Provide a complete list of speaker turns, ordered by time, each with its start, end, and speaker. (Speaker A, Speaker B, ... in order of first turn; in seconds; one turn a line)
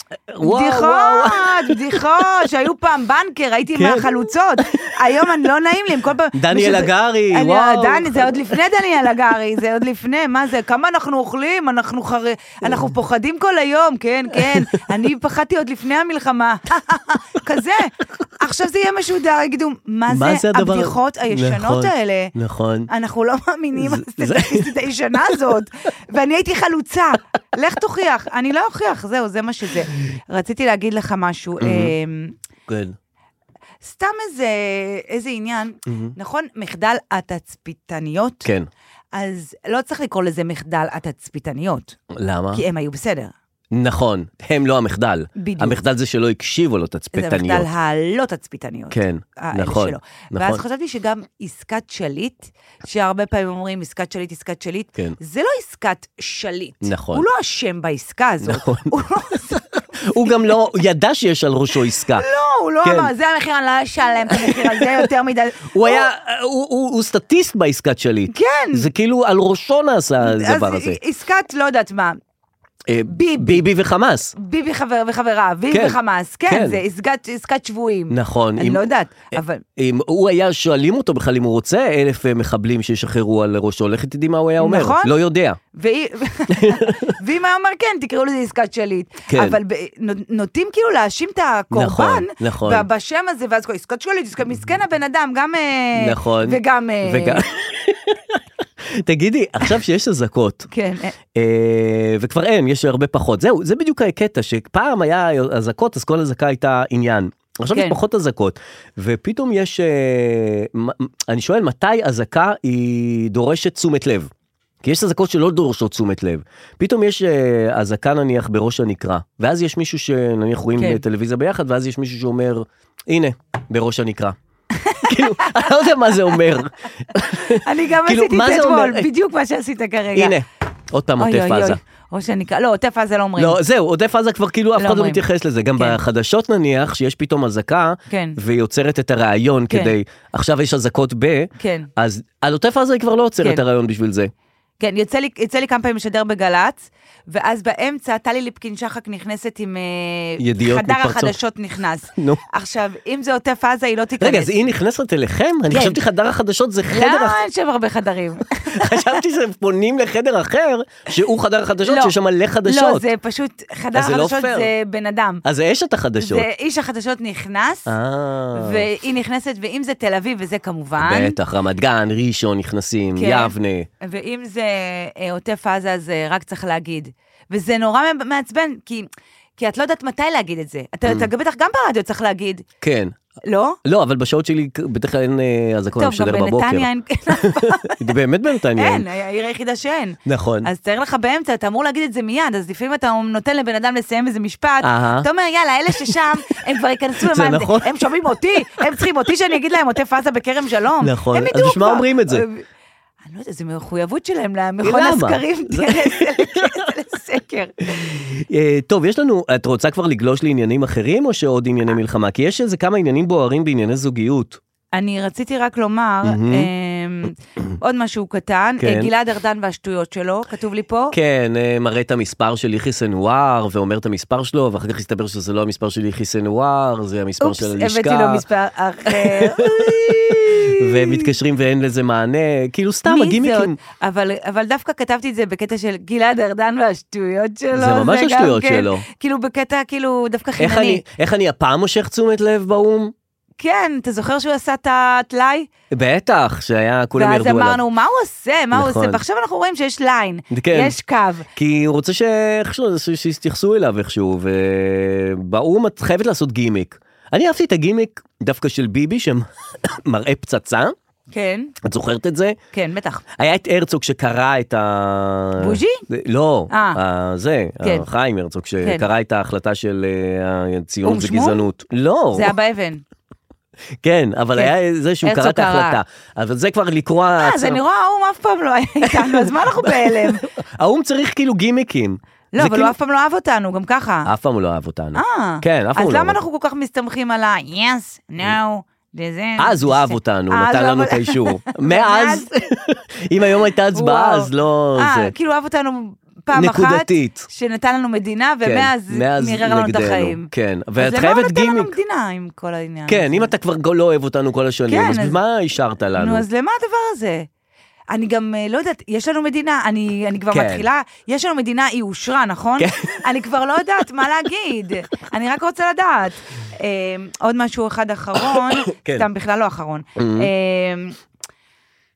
Speaker A: 0.3-2.1
Speaker B: 0.4-22.3
Speaker A: 3.7-5.3
Speaker A: 6.3-8.6
Speaker A: 14.3-14.7
Speaker A: 20.1-22.9
Speaker B: 22.9-32.4
Speaker A: 23.8-24.7
Speaker A: 31.6-31.9
Speaker A: 32.7-33.0
Speaker B: 33.8-38.5
Speaker A: 35.9-36.1
Speaker A: 38.4-38.7
Speaker B: 39.1-42.0
Speaker A: 42.1-42.6
Speaker B: 42.5-43.3
Speaker A: 43.7-47.7
Speaker B: 45.4-45.8
Speaker B: 47.1-60.5
Speaker A: 48.9-50.6
Speaker A: 56.8-57.2
Speaker A: 58.4-58.9
Speaker A: 60.0-62.2
Speaker B: 62.1-66.1
Speaker A: 62.8-63.1
Speaker A: 64.3-65.1
Speaker A: 65.7-71.0
Speaker B: 68.3-68.9
Speaker B: 70.2-72.2
Speaker A: 72.9-74.3
Speaker B: 73.1-73.6
Speaker B: 74.4-79.6
Speaker A: 75.7-76.8
Speaker A: 78.1-85.6
Speaker B: 84.6-85.1
Speaker B: 85.7-97.4
Speaker A: 86.5-87.0
Speaker A: 89.3-89.6
Speaker A: 91.7-92.9
Speaker A: 96.0-100.7
Speaker B: 100.7-101.1
Speaker A: 101.3-114.3
Speaker B: 107.7-108.0
Speaker A: 114.8-124.4
Speaker B: 120.8-121.0
Speaker B: 124.7-125.7
Speaker A: 125.0-129.1
Speaker B: 127.6-130.3
Speaker A: 130.1-131.8
Speaker B: 131.2-133.6
Speaker A: 133.4-144.3
Speaker B: 134.8-135.2
Speaker B: 138.1-138.4
Speaker B: 141.6-141.9
Speaker B: 144.8-154.7
Speaker A: 150.4-151.4
Speaker A: 152.2-152.4
Speaker A: 154.2-157.4
Speaker B: 155.7-156.0
Speaker B: 156.9-159.2
Speaker A: 158.7-163.1
Speaker B: 161.8-162.1
Speaker B: 162.7-165.4
Speaker A: 163.9-164.7
Speaker A: 165.4-166.5
Speaker B: 166.2-167.9
Speaker A: 167.9-168.8
Speaker B: 168.6-171.3
Speaker A: 171.0-173.9
Speaker B: 173.2-182.7
Speaker A: 182.8-183.1
Speaker B: 183.4-183.8
Speaker A: 183.8-189.1
Speaker B: 186.0-188.0
Speaker B: 188.8-202.6
Speaker A: 190.3-190.7
Speaker A: 194.8-195.3
Speaker A: 197.2-197.9
Speaker A: 201.0-202.5
Speaker B: 203.2-207.8
Speaker A: 204.8-206.9
Speaker A: 207.8-214.6
Speaker B: 214.9-221.2
Speaker A: 216.2-216.7
Speaker A: 218.8-219.1
Speaker A: 221.1-228.4
Speaker B: 227.4-231.3
Speaker A: 229.1-233.8
Speaker B: 233.1-241.0
Speaker A: 237.7-239.1
Speaker A: 240.6-243.1
Speaker B: 243.6-245.7
Speaker A: 245.9-247.8
Speaker B: 247.2-251.5
Speaker A: 248.7-249.2
Speaker A: 250.5-250.9
Speaker A: 251.6-260.9
Speaker B: 261.3-261.7
Speaker A: 261.8-262.6
Speaker B: 262.7-263.2
Speaker A: 263.4-272.5
Speaker B: 265.6-266.0
Speaker B: 266.7-267.0
Speaker B: 267.8-268.1
Speaker B: 271.0-271.6
Speaker B: 272.3-273.0
Speaker A: 274.0-277.8
Speaker B: 274.6-276.0
Speaker B: 277.4-280.4
Speaker A: 279.0-282.9
Speaker B: 282.6-284.3
Speaker A: 284.3-286.4
Speaker B: 285.1-292.5
Speaker A: 289.6-295.3
Speaker B: 293.9-303.5
Speaker A: 296.5-297.5
Speaker A: 298.6-301.9
Speaker A: 303.1-306.4
Speaker B: 304.9-305.4
Speaker B: 306.2-307.5
Speaker B: 308.1-321.2
Speaker A: 310.5-310.9
Speaker A: 312.8-313.2
Speaker A: 318.4-319.3
Speaker A: 320.2-320.5